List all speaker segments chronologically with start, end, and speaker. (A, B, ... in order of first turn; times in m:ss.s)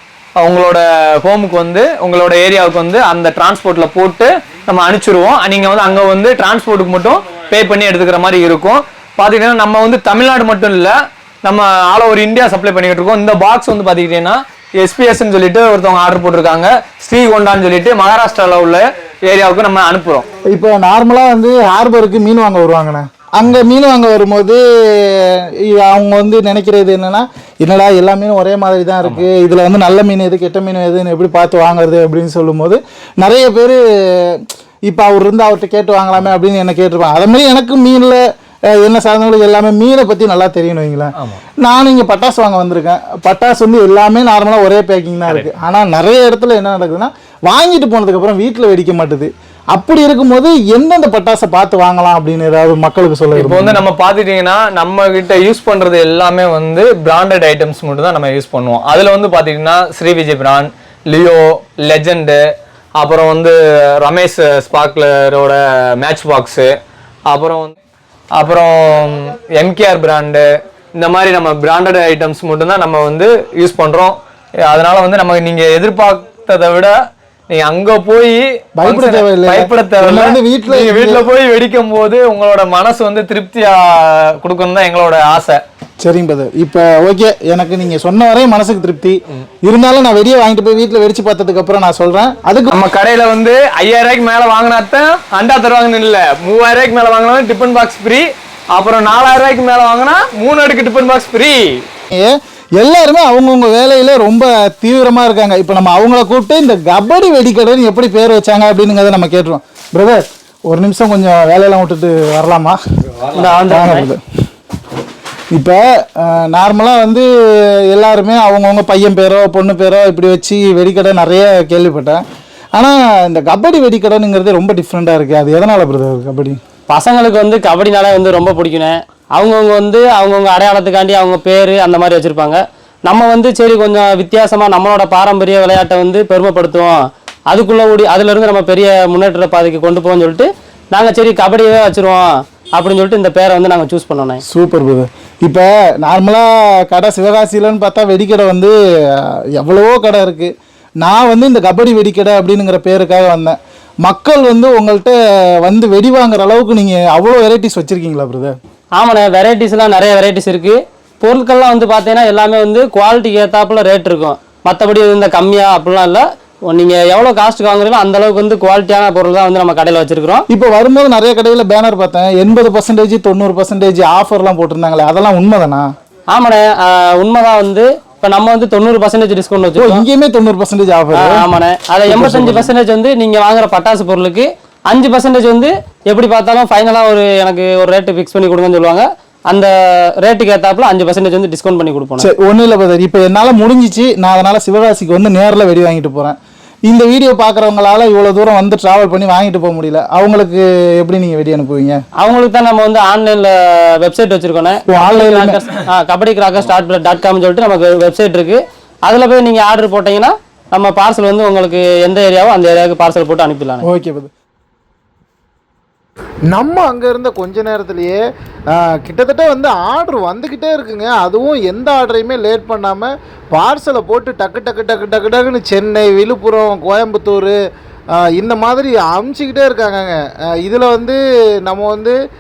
0:00.4-0:20.2 A
0:20.5-0:38.2 B
0:38.8-0:53.8 B
0:53.4-1:02.4 A
1:03.0-1:06.7 A
1:07.3-1:07.8 A
1:08.4-1:16.9 A
1:17.5-1:25.6 A
1:18.8-1:21.3 B
1:26.0-1:32.8 B
1:32.7-1:41.8 A
1:42.1-1:52.8 B
1:53.3-1:54.1 C
1:53.7-1:54.2 B
1:55.5-1:57.3 B
1:57.9-2:02.2 B
2:02.8-2:06.6 B
2:06.9-2:17.0 C
2:17.5-2:24.4 C
2:24.4-2:38.6 B
2:39.0-2:50.5 C
2:50.5-2:55.9 B
2:56.3-3:00.1 C
2:59.8-3:01.4 B
3:01.1-3:09.7 C
3:02.1-3:02.7 B
3:10.2-3:12.3 C
3:12.2-3:16.4 B
3:16.9-3:22.0 B
3:22.2-3:33.9 C
3:24.9-3:25.7 B
3:33.8-3:34.3 B
3:36.5-3:38.2 D
3:38.7-3:47.6 D
3:48.2-3:52.2 D